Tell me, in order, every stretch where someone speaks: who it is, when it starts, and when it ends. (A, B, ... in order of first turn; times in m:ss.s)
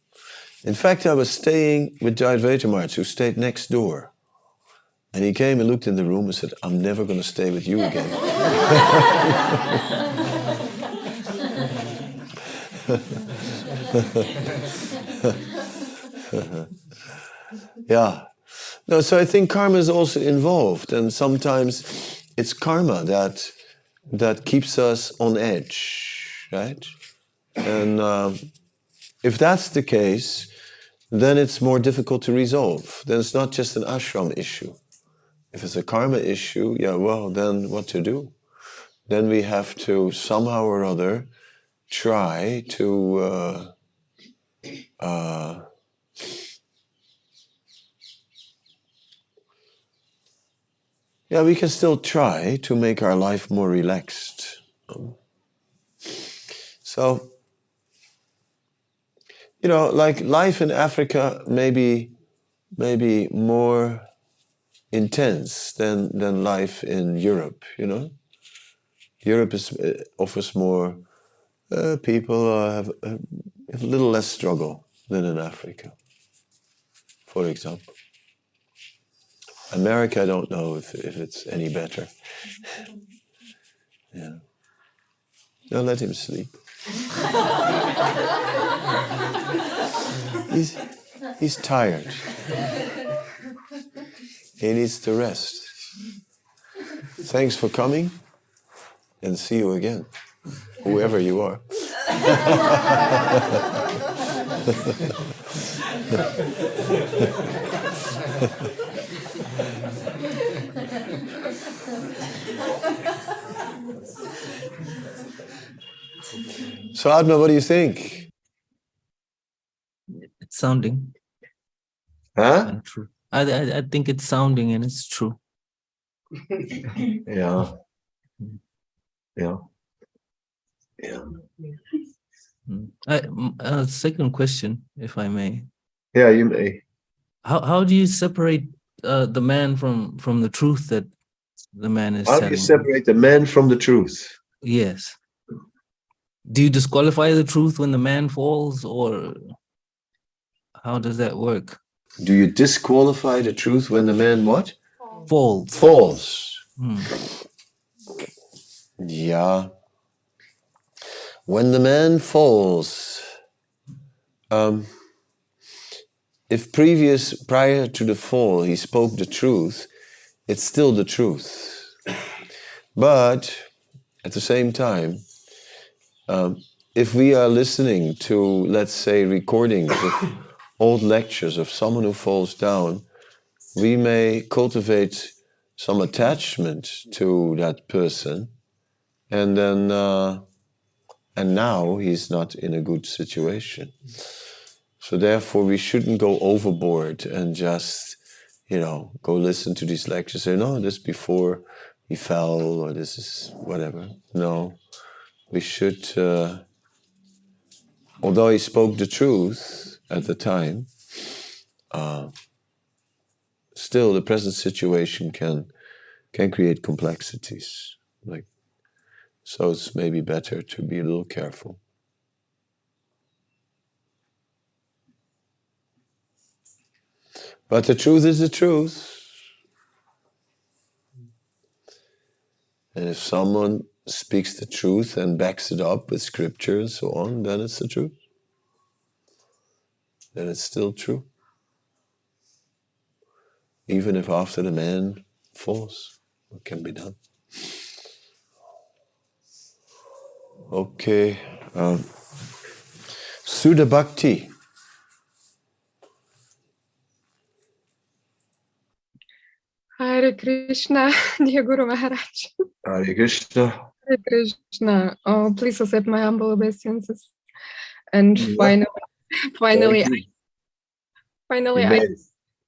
0:00.6-0:04.1 A
0:05.1-0:09.7 A
0:16.3-0:16.7 A
0:17.9-0:23.5 A
0:24.1-0:26.9 A
0:27.6-0:28.5 A
0:29.2-0:30.5 A
0:31.1-0:34.8 A
0:35.5-0:38.3 A
0:39.1-0:41.3 A
0:41.9-0:43.7 A
0:45.0-0:45.6 A
0:51.3-0:55.2 A
0:56.8-0:57.3 A
0:59.6-1:02.1 A
1:02.8-1:04.1 A
1:04.9-1:08.1 A
1:09.2-1:11.0 A
1:11.7-1:16.0 A
1:17.3-1:17.8 A
1:19.7-1:22.1 A
1:24.1-1:24.4 A
1:25.7-1:26.5 A
1:30.3-1:30.8 A
1:31.4-1:32.3 A
1:34.6-1:35.8 A
1:37.2-1:38.2 A
1:39.2-1:40.1 A
1:40.8-1:43.4 A
1:44.6-1:45.1 A
1:56.9-1:58.3 A
2:00.5-2:01.1 B
2:02.4-2:02.7 A
2:02.6-2:05.4 B
2:07.2-2:07.7 A
2:09.4-2:09.6 A
2:11.0-2:11.3 A
2:12.7-2:15.7 B
2:16.1-2:16.8 A
2:17.4-2:21.1 B
2:21.7-2:22.9 B
2:22.2-2:24.4 A
2:24.6-2:25.2 B
2:26.4-2:29.4 B
2:30.8-2:31.8 B
2:32.2-2:34.7 A
2:35.2-2:35.7 B
2:35.7-2:36.6 A
2:36.8-2:37.1 B
2:39.0-2:39.7 A
2:41.5-2:43.3 A
2:44.5-2:44.9 A
2:46.5-2:49.9 A
2:50.5-2:51.9 A
2:53.0-2:53.7 A
2:54.2-2:55.2 A
2:56.3-3:03.0 A
3:03.8-3:08.5 A
3:09.3-3:10.4 A
3:11.4-3:14.0 A
3:15.0-3:24.8 A
3:25.5-3:26.6 A
3:28.2-3:30.9 A
3:31.9-3:32.3 A
3:33.7-3:35.7 A
3:36.3-3:38.5 A
3:39.4-3:41.8 A
3:47.7-3:49.3 A
3:52.9-3:58.1 A
4:00.3-4:01.2 A
4:03.9-4:07.2 A
4:10.7-4:12.0 A
4:13.4-4:14.5 A
4:20.0-4:22.5 C
4:22.8-4:23.9 A
4:24.1-4:27.3 C
4:28.1-4:28.9 C
4:28.4-4:28.8 A
4:29.5-4:30.2 C
4:29.7-4:30.2 A
4:31.5-4:32.1 C
4:31.8-4:32.2 A